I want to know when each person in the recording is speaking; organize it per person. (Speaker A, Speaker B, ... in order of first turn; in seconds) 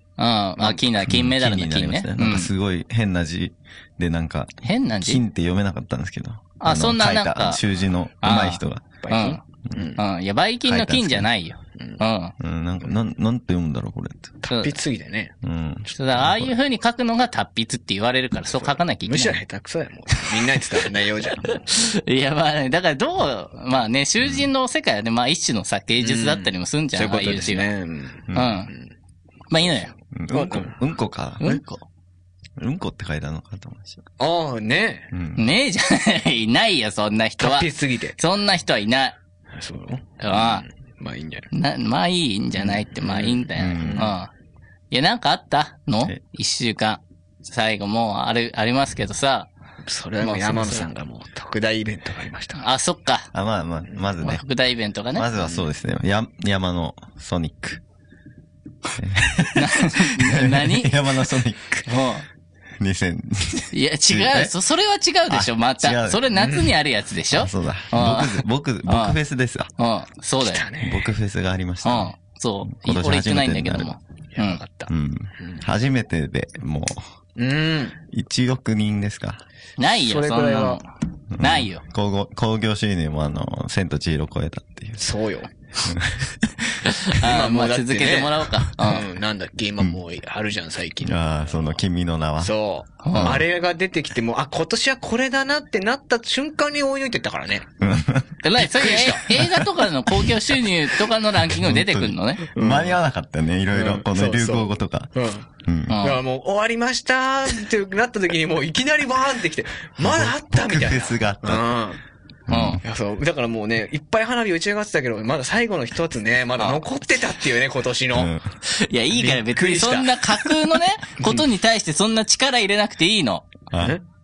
Speaker A: 0.2-2.5, 4.6-5.2, 6.6-7.6, 8.2-9.4, 10.0-12.3, 14.5-14.8, 15.9-19.4, 20.3-27.7, 28.3-28.7, 29.5-29.9, 31.4-31.8, 35.4-39.2, 40.2-40.6, 41.5-44.3, 44.9-49.5, 50.2-50.9, 52.6-53.3, 54.2-55.3, 59.5-61.0, 61.9-62.2, 63.7-69.2, 69.8-70.7, 71.8-74.6, 79.8-80.8, 81.4-81.8, 86.9-89.1, 93.0-93.4, 98.4-102.5, 105.9-106.2, 112.5-112.8, 118.7-123.5
Speaker B: 1.0-8.9, 10.7-11.3, 12.4-14.4, 15.4-16.6, 28.3-28.6, 30.1-31.6, 32.6-34.0, 35.1-35.5, 43.5-44.1, 53.3-54.4, 55.1-57.8, 59.0-61.9, 62.8-64.5, 65.3-66.3, 67.3-69.7, 70.8-72.1, 72.7-73.9, 74.9-77.1, 78.1-79.4, 81.3-85.0, 85.9-86.8, 91.0-92.5, 93.1-93.4, 97.8-98.3, 99.4-99.7, 101.4-105.1, 105.6-106.0, 110.0-111.7, 112.5-112.8, 118.2-118.4, 123.7-124.0
Speaker C: 9.0-10.0, 14.4-15.3, 18.6-21.8, 26.0-28.9, 29.6-30.8, 34.2-35.1, 37.4-38.2, 39.5-41.5, 42.6-44.1, 49.9-52.6, 55.4-55.7, 66.3-66.7, 70.4-71.1, 74.3-75.6, 77.4-78.0, 80.0-80.8, 85.0-85.5, 87.1-91.7, 92.4-97.7, 98.6-99.4, 102.5-103.0, 103.7-105.5, 106.0-112.0, 112.8-118.3, 119.1-120.5, 121.2-121.4, 123.8-124.0